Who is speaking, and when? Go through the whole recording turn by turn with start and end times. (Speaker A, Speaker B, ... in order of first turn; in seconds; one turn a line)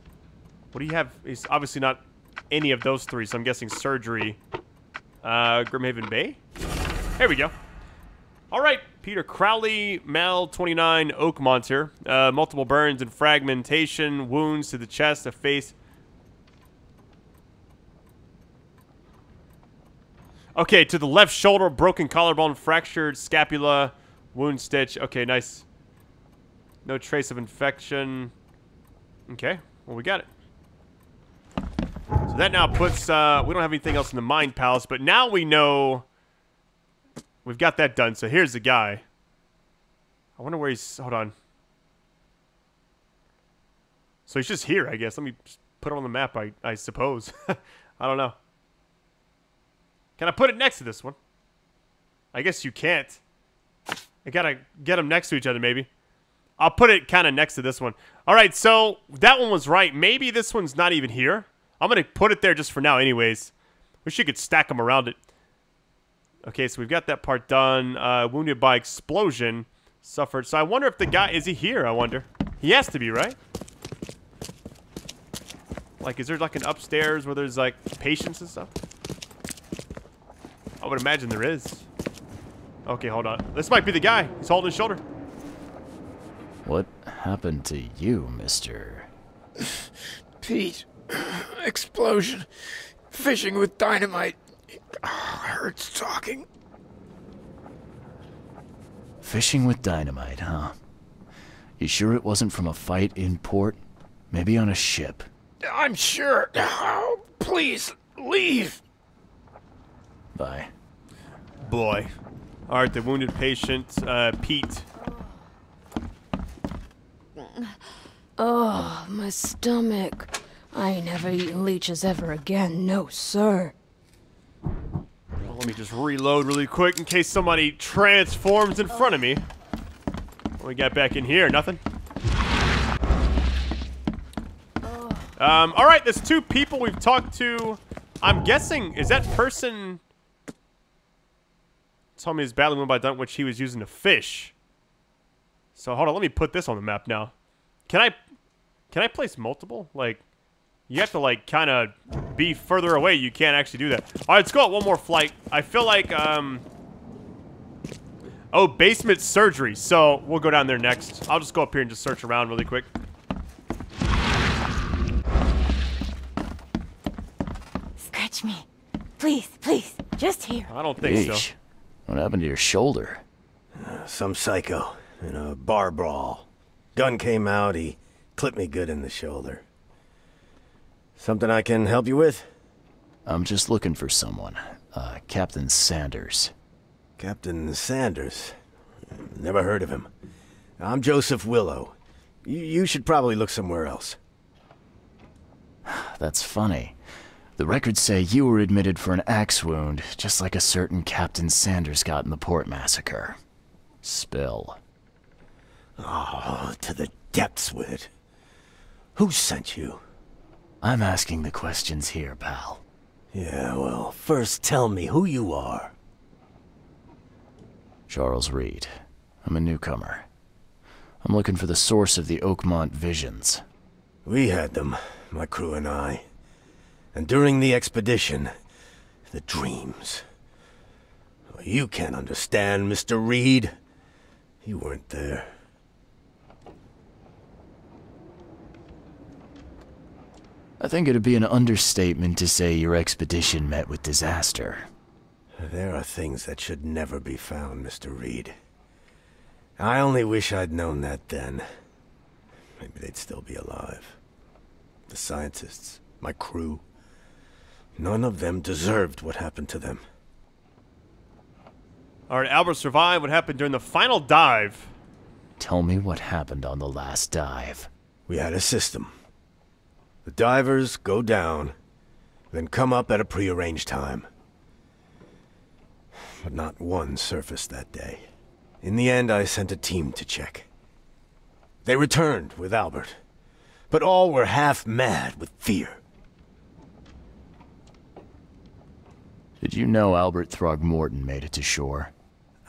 Speaker A: 0.7-4.4
Speaker A: 5.2-6.4
Speaker A: 7.2-7.5
Speaker A: 8.5-15.7
Speaker A: 20.6-25.6
Speaker A: 26.9-28.3
Speaker A: 29.3-30.3
Speaker A: 32.3-36.1
Speaker A: 37.5-39.0
Speaker A: 40.4-41.3
Speaker A: 44.3-48.4
Speaker A: 50.2-51.2
Speaker A: 52.3-53.2
Speaker A: 54.2-55.9
Speaker A: 56.6-63.5
Speaker A: 64.0-65.2
Speaker A: 66.4-73.4
Speaker A: 76.0-78.7
Speaker A: 80.8-81.8
Speaker A: 82.9-85.0
Speaker B: 86.6-89.1
Speaker C: 90.4-92.5
Speaker C: 93.1-94.4
Speaker C: 95.0-96.5
Speaker B: 99.2-100.8
Speaker B: 101.8-103.8
Speaker B: 104.3-105.3
Speaker C: 105.6-108.8
Speaker B: 110.3-110.7
Speaker A: 111.7-112.1
Speaker A: 112.7-114.9
Speaker D: 118.4-123.7
Speaker A: 125.5-129.4
Speaker A: 130.6-131.8
Speaker A: 135.4-140.0
Speaker A: 142.2-144.5
Speaker A: 145.8-147.3
Speaker A: 147.9-148.2
Speaker A: 148.9-150.2
Speaker A: 150.9-156.6
Speaker A: 158.5-162.9
Speaker E: 168.1-168.7
Speaker E: 169.2-170.7
Speaker A: 170.7-171.5
Speaker B: 171.0-173.2
Speaker F: 173.8-179.6
Speaker F: 181.2-182.5
Speaker B: 183.2-186.5
Speaker F: 187.2-188.6
Speaker F: 189.1-190.1
Speaker F: 190.8-194.2
Speaker B: 195.8-197.0
Speaker B: 197.6-203.4
Speaker B: 204.0-204.8
Speaker F: 206.0-208.1
Speaker F: 209.2-210.0
Speaker B: 210.8-212.8
Speaker F: 213.3-215.9
Speaker B: 218.1-220.3
Speaker B: 221.2-223.6
Speaker F: 224.2-226.2
Speaker F: 227.1-228.5
Speaker F: 229.3-230.2
Speaker F: 231.5-233.7
Speaker F: 234.6-235.5
Speaker B: 240.8-244.9
Speaker F: 245.6-248.6
Speaker F: 249.8-251.7
Speaker F: 252.8-254.2
Speaker F: 255.1-256.8
Speaker F: 258.0-260.0
Speaker A: 262.3-264.9
Speaker B: 265.6-267.9
Speaker F: 268.3-269.1
Speaker F: 270.2-271.8
Speaker F: 272.5-274.3
Speaker F: 276.4-278.3
Speaker F: 278.8-280.7
Speaker F: 281.9-283.2
Speaker F: 283.9-286.0
Speaker B: 289.6-292.1